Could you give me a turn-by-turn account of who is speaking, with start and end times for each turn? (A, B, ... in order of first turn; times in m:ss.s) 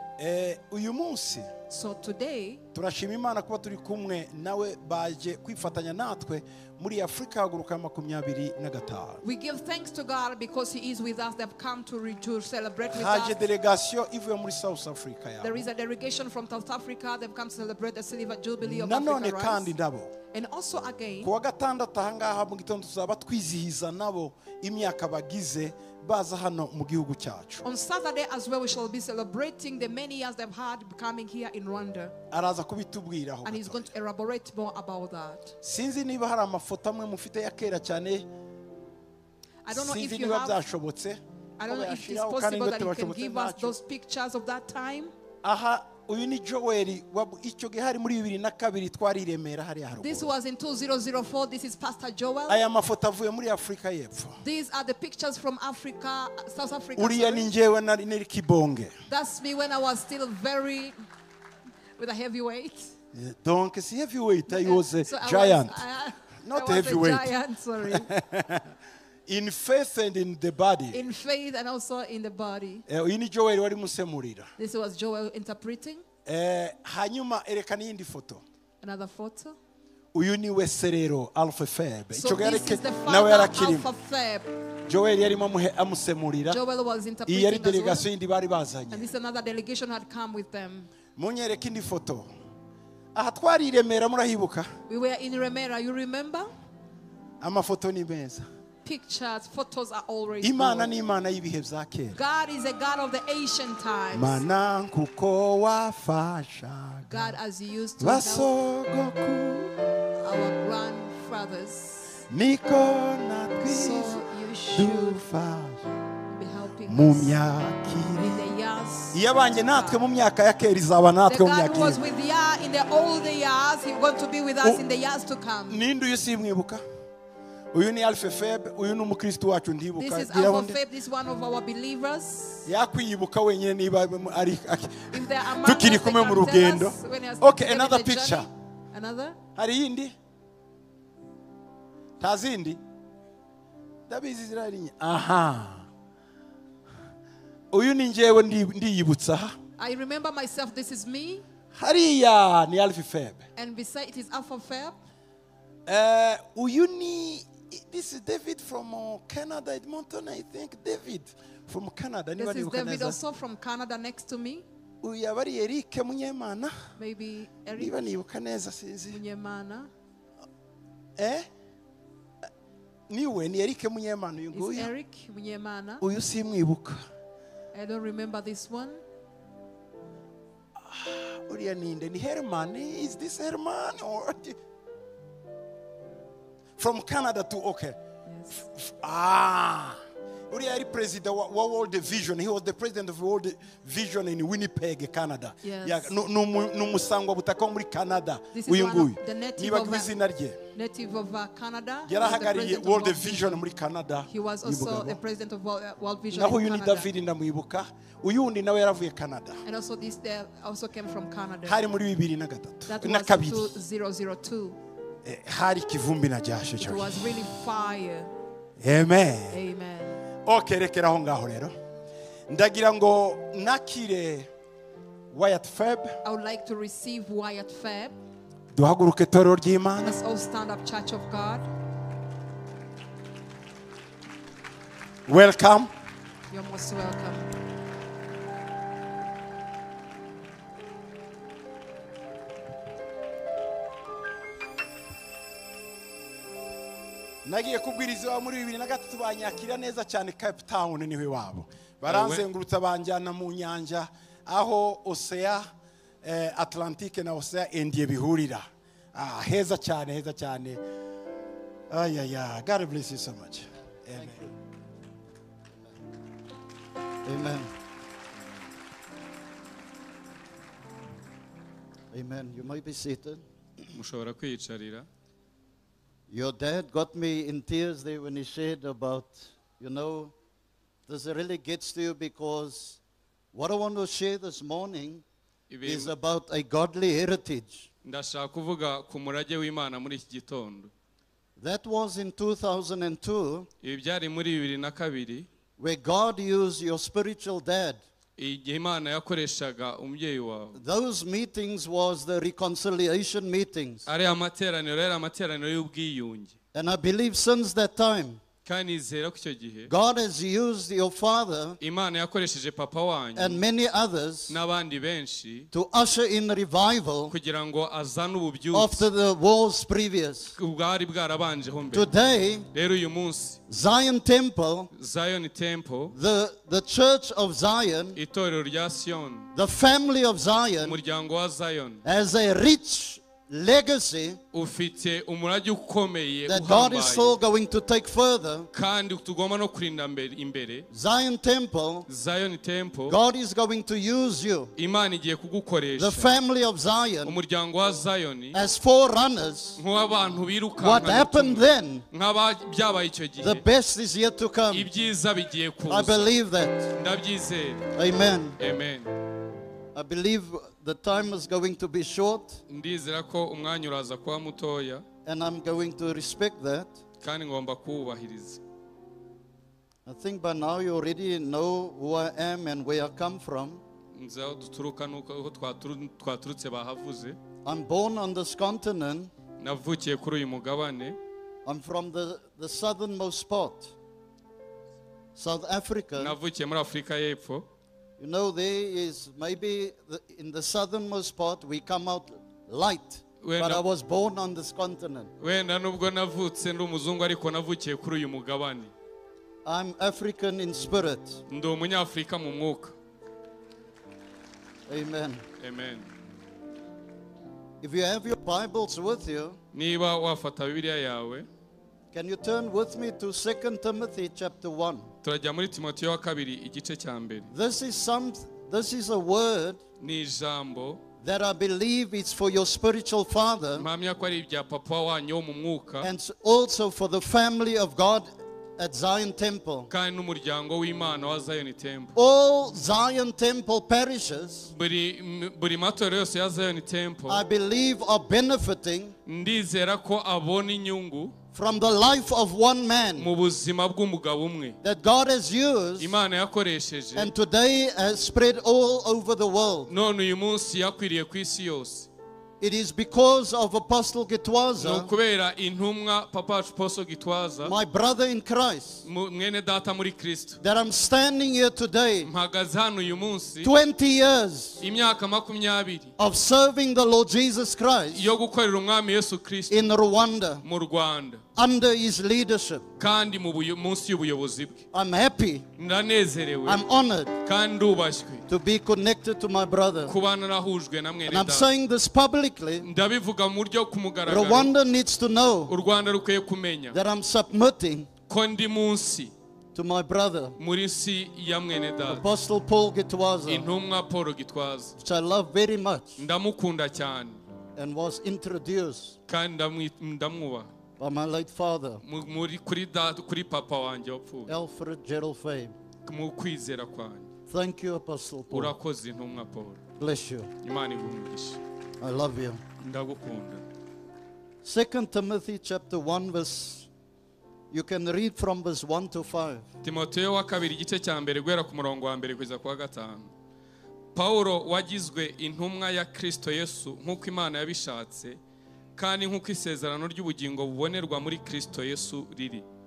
0:00.2-0:01.5 A
0:01.7-0:02.6 B
0:02.7-0:09.2 A
0:09.2-0:13.4 B
0:12.9-0:15.6 A
0:15.4-0:19.7 B
0:18.6-0:20.1 A
0:20.3-0:21.3 B
0:21.2-0:27.6 A
0:27.6-0:32.1 B
0:32.3-0:33.9 A
0:33.4-0:35.5 B
0:35.6-0:38.3 A
0:39.6-0:40.6 B
0:39.7-0:43.8 A
0:41.6-0:45.1 B
0:45.4-0:50.3 A
0:50.0-0:52.6 B
0:52.5-0:54.4 A
0:54.4-0:57.5 B
0:57.0-0:58.9 A
0:59.1-1:01.0 B
1:02.0-1:02.9 B
1:03.1-1:05.8 A
1:04.5-1:08.1 B
1:06.4-1:07.3 A
1:07.8-1:08.7 A
1:09.3-1:11.0 A
1:10.9-1:12.8 B
1:12.9-1:14.5 A
1:14.6-1:16.0 B
1:16.3-1:18.4 A
1:18.8-1:19.6 B
1:20.1-1:23.9 A
1:22.2-1:24.5 B
1:24.9-1:26.6 A
1:26.5-1:28.1 B
1:27.3-1:29.1 A
1:28.9-1:30.9 B
1:31.2-1:32.3 A
1:33.2-1:34.7 A
1:34.9-1:36.5 B
1:37.4-1:38.5 A
1:38.8-1:40.9 B
1:40.4-1:42.2 A
1:42.1-1:44.4 B
1:44.1-1:47.2 A
1:47.1-1:48.5 B
1:48.0-1:49.7 A
1:50.2-1:52.1 B
1:52.3-1:54.2 A
1:53.6-1:55.2 B
1:54.7-1:55.8 A
1:56.3-1:57.4 B
1:56.9-1:58.4 A
1:58.2-2:00.0 B
1:59.1-2:02.0 A
2:01.3-2:05.8 B
2:05.7-2:06.8 A
2:07.7-2:10.8 A
2:10.0-2:12.7 B
2:12.7-2:18.5 A
2:15.1-2:19.4 B
2:19.6-2:20.1 A
2:22.2-2:22.8 A
2:24.1-2:25.8 A
2:27.7-2:29.5 A
2:29.8-2:31.4 B
2:31.8-2:33.4 A
2:33.6-2:35.0 B
2:35.9-2:43.2 A
2:42.4-2:44.6 B
2:45.0-2:46.8 A
2:47.0-2:48.0 B
2:47.8-2:49.2 A
2:49.1-2:49.9 B
2:51.2-2:51.5 A
2:53.1-2:54.9 A
2:54.5-2:56.0 B
2:56.0-2:57.0 A
2:57.7-2:59.0 B
3:00.9-3:04.6 A
3:06.8-3:08.0 A
3:08.6-3:10.0 A
3:10.5-3:20.6 A
3:15.6-3:16.2 B
3:18.5-3:20.1 B
3:20.7-3:23.6 B
3:22.1-3:25.2 A
3:24.3-3:27.1 B
3:26.3-3:29.6 A
3:29.6-3:31.8 B
3:31.7-3:33.7 A
3:32.9-3:34.8 B
3:35.2-3:37.3 A
3:36.8-3:38.3 B
3:38.8-3:39.6 A
3:39.5-3:40.2 B
3:40.5-3:41.7 A
3:42.5-3:44.5 A
3:45.3-3:46.2 A
3:46.2-3:48.2 B
3:48.7-3:50.2 A
3:50.0-3:51.7 B
3:55.3-3:55.9 A
3:56.5-3:57.4 B
4:07.4-4:15.7 A
4:12.1-4:12.5 C
4:16.2-4:20.8 A
4:21.9-4:24.4 A
4:24.2-4:24.5 D
4:27.3-4:27.7 D
4:32.1-4:33.4 D
4:33.9-4:35.1 C
4:36.3-4:40.3 D
4:41.1-4:43.0 D
4:43.5-4:45.2 D
4:45.7-4:46.1 C
4:45.8-4:47.9 D
4:48.0-4:50.9 C
4:51.6-4:53.7 D
4:53.8-4:55.5 C
4:55.8-4:58.0 D
4:58.4-5:00.8 C
5:00.8-5:04.0 D
5:04.1-5:06.5 C
5:06.7-5:08.4 D
5:08.6-5:09.9 C
5:09.9-5:11.8 D
5:11.8-5:13.6 C
5:13.4-5:14.6 D
5:14.5-5:15.7 C
5:15.7-5:17.3 D
5:17.3-5:19.0 C
5:18.7-5:20.5 D
5:20.6-5:22.1 C
5:21.9-5:22.7 D
5:22.7-5:23.6 C
5:23.7-5:24.9 D
5:25.0-5:26.1 C
5:26.1-5:28.2 D
5:28.2-5:29.5 C
5:29.6-5:31.0 D
5:30.8-5:32.0 C
5:32.0-5:34.4 D
5:34.5-5:37.3 C
5:36.5-5:38.7 D
5:38.7-5:40.9 C
5:40.9-5:42.1 D
5:42.1-5:43.2 C
5:43.1-5:44.7 D
5:44.8-5:46.3 C
5:46.0-5:47.4 D
5:47.2-5:48.6 C
5:48.5-5:49.8 D
5:49.8-5:53.6 C
5:50.8-5:52.0 D
5:53.4-5:54.9 D
5:54.7-5:56.3 C
5:55.9-5:56.9 D
5:57.0-5:57.9 C
5:58.0-5:58.6 D
5:58.6-5:59.1 C
6:00.0-6:02.6 D
6:02.7-6:05.0 C
6:05.3-6:07.0 D
6:07.2-6:08.6 C
6:10.1-6:13.8 D
6:14.1-6:17.4 C
6:17.6-6:19.3 D
6:19.6-6:21.2 C
6:21.6-6:23.9 D
6:25.4-6:26.4 D
6:26.2-6:27.6 C
6:28.2-6:35.3 D
6:33.4-6:33.8 C
6:35.4-6:38.9 C
6:39.6-6:41.4 D
6:41.5-6:43.0 C
6:44.9-6:45.4 D
6:45.6-6:46.1 C
6:47.8-6:49.6 D
6:49.7-6:51.5 C
6:52.1-6:55.1 D
6:55.2-6:57.5 C
6:57.5-6:59.8 D
7:00.0-7:01.0 C
7:01.2-7:03.9 D
7:03.8-7:06.1 C
7:06.0-7:09.9 D
7:09.9-7:12.1 C
7:12.2-7:14.7 D
7:14.7-7:17.4 C
7:17.3-7:19.1 D
7:19.3-7:21.3 C
7:21.5-7:23.3 D
7:23.2-7:24.8 C
7:24.8-7:26.2 D
7:26.0-7:27.3 C
7:27.2-7:29.9 D
7:29.9-7:32.1 C
7:32.6-7:35.1 D
7:34.8-7:37.7 C
7:37.6-7:39.0 D
7:39.1-7:40.6 C
7:40.6-7:42.3 D
7:42.2-7:43.7 C
7:43.6-7:44.8 D
7:44.8-7:46.1 C
7:46.2-7:48.3 D
7:48.1-7:49.8 C
7:49.7-7:50.6 D
7:50.6-7:51.4 C
7:51.6-7:52.8 D
7:53.0-7:54.8 C
7:54.9-7:55.7 D
7:55.8-7:56.8 C
7:56.7-7:57.3 D
7:57.4-7:58.4 C
7:58.5-8:00.1 D
8:00.1-8:01.7 C
8:01.3-8:02.9 D
8:02.8-8:04.7 C
8:04.3-8:05.7 D
8:05.7-8:07.0 C
8:06.9-8:08.1 D
8:08.3-8:09.3 C
8:09.8-8:10.6 D
8:10.6-8:12.2 C
8:12.1-8:13.7 D
8:13.5-8:14.9 C
8:15.0-8:16.2 D
8:16.2-8:17.4 C
8:17.8-8:19.1 D
8:19.3-8:20.7 C
8:21.0-8:22.0 D
8:22.0-8:24.5 C
8:24.5-8:25.8 D
8:26.0-8:27.3 C
8:27.5-8:28.7 D
8:28.5-8:29.8 C
8:30.0-8:30.5 D
8:30.6-8:31.6 C
8:32.0-8:32.6 D
8:32.8-8:33.6 C
8:34.6-8:36.9 D
8:37.7-8:39.6 D
8:39.8-8:43.3 C
8:44.2-8:48.4 C
8:49.0-8:52.6 C